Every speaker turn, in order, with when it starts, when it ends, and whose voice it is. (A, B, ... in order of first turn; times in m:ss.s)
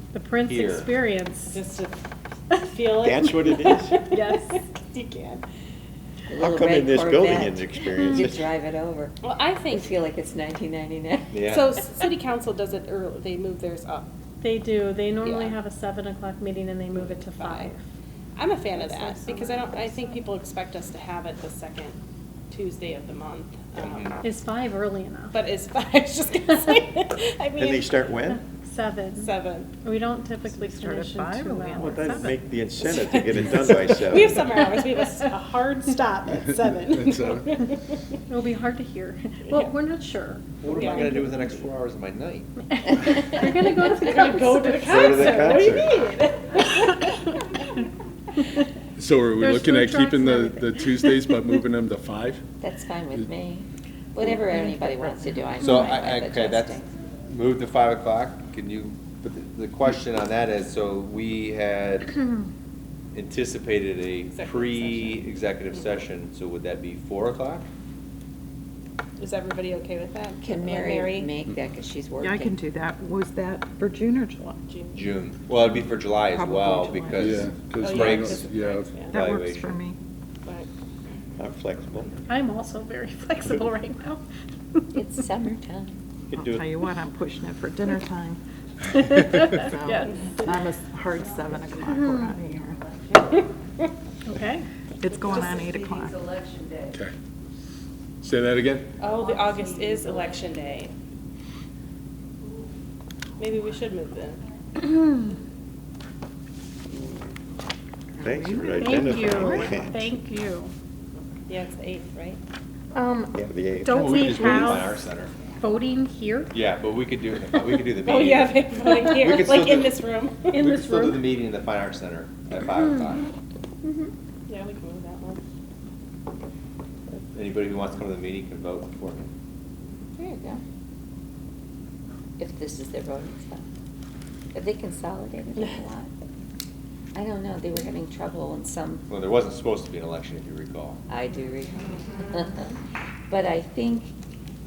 0:00.1-0:01.6 A
0:00.4-0:00.9 B
0:01.5-0:02.0 C
0:02.7-0:05.4 C
0:02.8-0:04.0 D
0:04.0-0:04.6 A
0:06.3-0:09.2 E
0:06.4-0:08.5 D
0:09.2-0:09.9 C
0:09.7-0:11.7 E
0:11.3-0:11.7 B
0:11.4-0:14.1 C
0:14.4-0:17.8 A
0:15.2-0:15.6 C
0:17.0-0:17.7 C
0:18.4-0:22.0 C
0:18.8-0:20.2 A
0:22.5-0:24.1 C
0:23.8-0:24.2 B
0:24.2-0:25.4 A
0:25.3-0:27.9 C
0:27.6-0:28.4 D
0:28.2-0:32.4 A
0:29.2-0:29.7 C
0:30.5-0:32.3 F
0:31.8-0:34.6 D
0:32.8-0:38.0 C
0:36.9-0:37.5 G
0:38.3-0:40.6 A
0:39.5-0:39.7 C
0:40.6-0:42.5 B
0:40.7-0:41.3 C
0:42.8-0:45.7 A
0:43.8-0:47.3 C
0:44.8-0:45.9 D
0:44.9-0:45.4 B
0:49.0-0:52.4 G
0:49.4-0:51.4 A
0:52.6-0:56.9 E
0:55.6-0:56.8 B
0:57.3-1:02.2 B
1:03.1-1:07.7 B
1:04.3-1:05.2 C
1:09.2-1:11.3 C
1:10.4-1:12.6 E
1:12.2-1:14.6 F
1:14.7-1:15.2 C
1:14.9-1:18.5 B
1:16.1-1:17.5 F
1:17.2-1:18.9 G
1:17.8-1:19.3 C
1:19.1-1:19.8 B
1:19.1-1:20.0 F
1:21.4-1:22.1 D
1:22.3-1:24.2 A
1:24.9-1:26.0 E
1:26.3-1:26.7 D
1:26.3-1:28.4 F
1:28.9-1:30.2 A
1:28.9-1:32.8 F
1:31.1-1:33.4 E
1:34.2-1:34.7 A
1:35.0-1:36.2 F
1:35.1-1:37.0 E
1:38.2-1:38.9 G
1:39.0-1:40.9 C
1:39.0-1:40.8 E
1:43.4-1:44.4 C
1:48.2-1:50.1 D
1:48.2-1:49.9 F
1:48.8-1:50.7 A
1:51.5-1:52.4 C
1:52.9-1:55.0 A
1:53.3-1:54.8 D
1:53.9-1:55.3 B
1:55.5-1:56.5 A
1:56.5-2:00.0 B
1:57.8-2:00.6 C
2:00.5-2:01.3 A
2:00.5-2:03.3 B
2:04.5-2:05.4 C
2:07.3-2:09.3 B
2:10.2-2:10.6 E
2:12.4-2:13.6 E
2:14.5-2:16.1 E
2:17.1-2:19.1 E
2:19.1-2:21.0 B
2:21.1-2:22.8 E
2:23.3-2:24.1 E